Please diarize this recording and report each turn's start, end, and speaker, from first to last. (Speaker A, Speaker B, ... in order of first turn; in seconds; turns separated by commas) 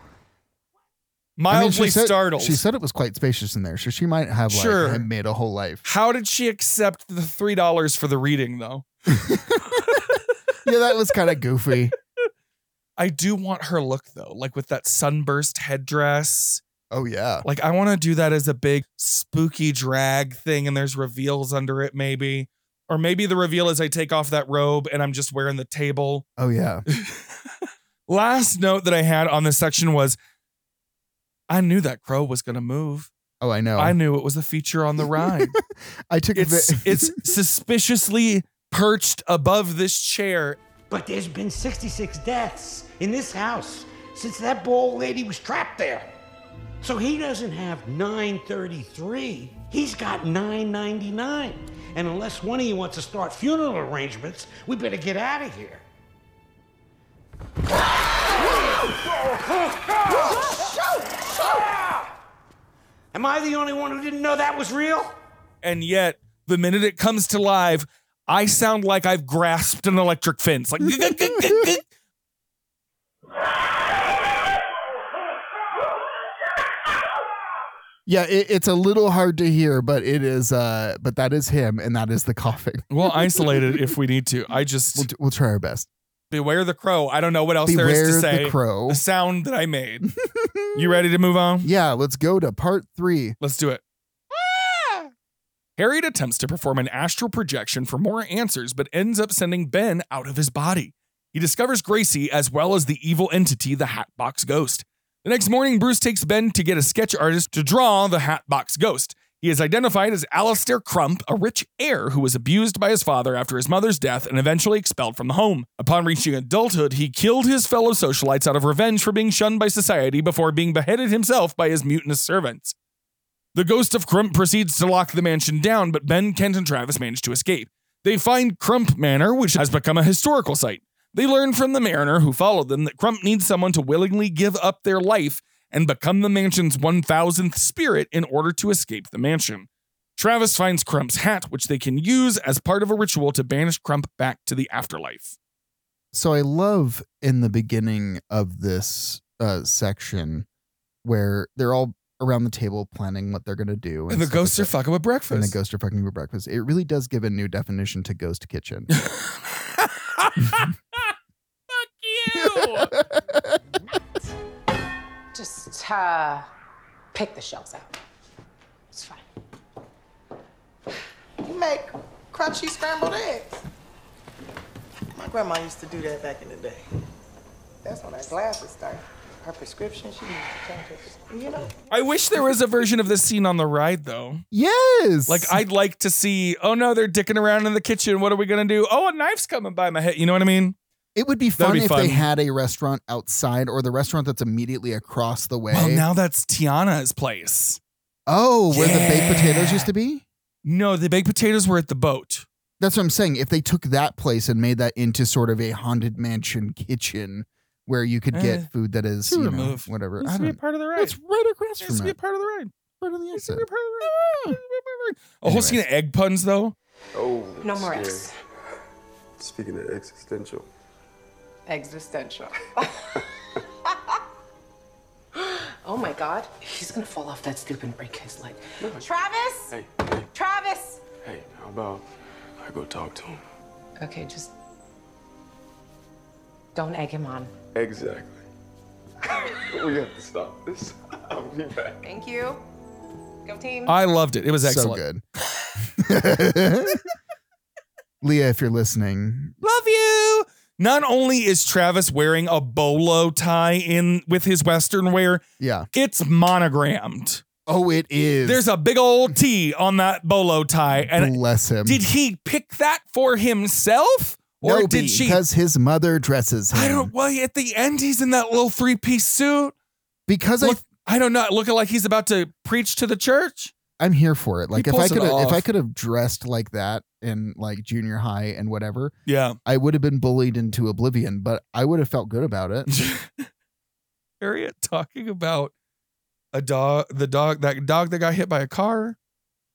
Speaker A: 1.4-2.6, Speaker B: 1.5-5.8, Speaker A: 4.5-5.1, Speaker A: 5.8-8.9, Speaker B: 9.1-10.0, Speaker B: 10.6-11.9, Speaker A: 13.0-16.6, Speaker B: 16.9-17.5, Speaker A: 17.4-26.3, Speaker B: 26.4-26.8, Speaker A: 26.9-27.4, Speaker A: 28.1-30.2, Speaker A: 31.5-33.1, Speaker B: 33.4-34.0, Speaker A: 33.8-35.5, Speaker B: 35.0-37.2, Speaker A: 36.4-40.6, Speaker C: 40.9-46.1, Speaker C: 46.8-55.8, Speaker C: 61.5-61.9, Speaker C: 63.1-65.2, Speaker A: 65.6-71.9, Speaker B: 71.0-71.7, Speaker B: 78.1-83.8, Speaker A: 82.9-85.1, Speaker B: 85.0-85.9, Speaker A: 86.3-90.1, Speaker B: 87.7-89.0, Speaker B: 90.0-91.0, Speaker A: 90.8-91.7, Speaker B: 91.6-93.4, Speaker A: 93.4-95.1, Speaker A: 95.8-122.8, Speaker A: 123.5-145.4, Speaker B: 146.1-150.5, Speaker B: 151.0-154.7, Speaker A: 154.1-155.6, Speaker B: 155.3-158.9, Speaker A: 158.9-161.0, Speaker A: 161.7-162.9, Speaker B: 162.3-163.6, Speaker D: 165.3-166.5, Speaker D: 167.1-168.0, Speaker D: 168.9-169.2, Speaker E: 171.4-173.6, Speaker E: 175.1-176.9, Speaker E: 177.8-181.8, Speaker A: 181.9-184.4, Speaker B: 184.5-185.6, Speaker A: 185.3-190.8, Speaker B: 191.2-196.0, Speaker A: 191.6-192.3, Speaker A: 195.7-197.8, Speaker B: 198.3-200.2, Speaker A: 198.7-199.9, Speaker A: 200.7-202.5, Speaker B: 202.8-212.2, Speaker A: 208.3-208.7, Speaker A: 209.3-211.2, Speaker A: 211.8-212.8, Speaker B: 213.0-213.7, Speaker A: 213.4-216.8, Speaker B: 215.4-215.8, Speaker F: 217.1-218.3, Speaker D: 217.6-218.3, Speaker F: 219.4-220.7, Speaker D: 221.7-223.0, Speaker D: 225.3-229.8, Speaker F: 228.8-229.1, Speaker F: 229.7-230.3, Speaker D: 230.3-231.0, Speaker F: 231.2-232.1, Speaker F: 232.6-233.4, Speaker D: 234.0-234.5, Speaker D: 236.7-237.5, Speaker F: 237.7-238.4, Speaker F: 239.3-242.0, Speaker D: 242.0-242.6, Speaker D: 243.4-243.9, Speaker A: 243.9-245.0, Speaker B: 244.6-245.2, Speaker B: 245.9-247.0, Speaker B: 248.2-249.5, Speaker A: 249.6-257.4, Speaker B: 255.6-255.9, Speaker B: 257.7-258.7, Speaker A: 258.4-265.4, Speaker B: 260.9-262.0, Speaker B: 264.6-267.1, Speaker A: 266.7-269.7, Speaker B: 270.3-270.8, Speaker A: 270.6-273.7, Speaker B: 274.0-279.1, Speaker A: 274.8-275.7, Speaker A: 279.3-279.6, Speaker B: 279.6-282.9, Speaker A: 282.9-283.5, Speaker A: 284.4-285.7, Speaker A: 286.5-289.2